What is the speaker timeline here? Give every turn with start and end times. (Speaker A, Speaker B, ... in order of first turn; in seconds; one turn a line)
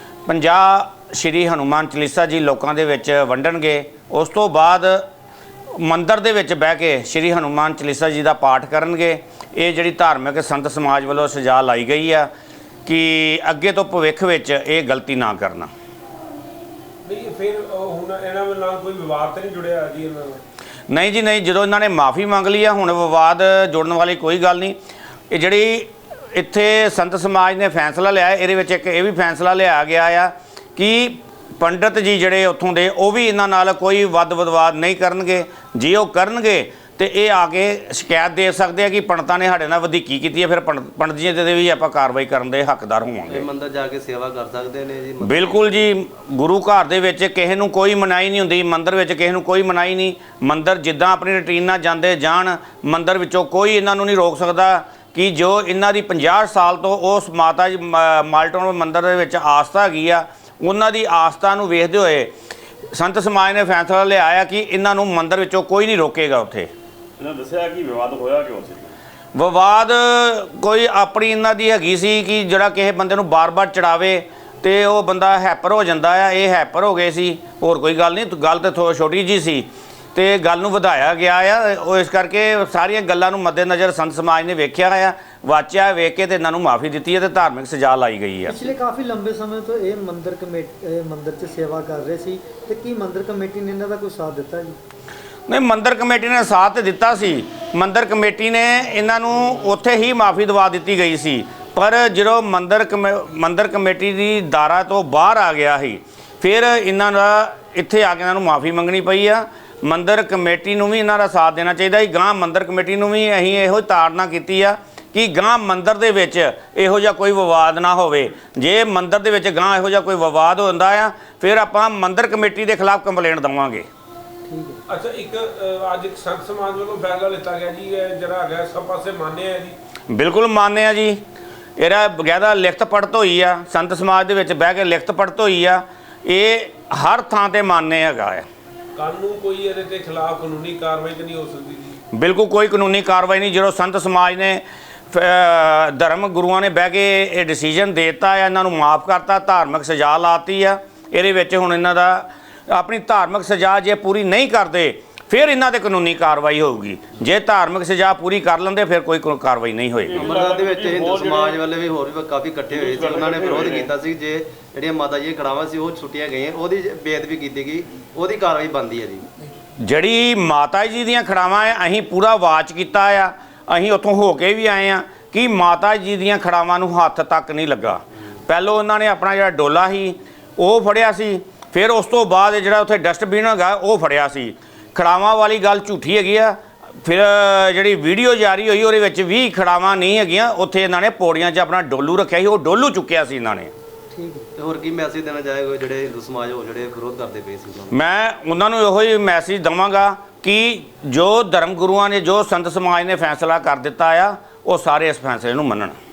Speaker A: 0.2-5.0
Speaker A: 5.7-12.3
Speaker A: 12.8-15.7
Speaker B: 17.0-20.4
Speaker A: 20.9-24.8
Speaker A: 25.3-43.5
Speaker C: 43.3-45.8
Speaker A: 45.2-62.3
Speaker A: 62.9-66.7
Speaker D: 67.2-69.0
Speaker A: 69.3-88.6
Speaker E: 88.5-94.8
Speaker A: 95.5-123.9
Speaker E: 124.5-124.8
Speaker B: 124.9-129.8
Speaker A: 130.1-131.2
Speaker A: 131.8-138.5
Speaker B: 138.9-142.0
Speaker A: 142.1-160.2
Speaker D: 160.1-161.6
Speaker C: 160.1-169.3
Speaker D: 162.7-163.9
Speaker A: 169.8-193.7
Speaker E: 194.1-194.5
Speaker C: 194.6-197.9
Speaker A: 197.9-206.0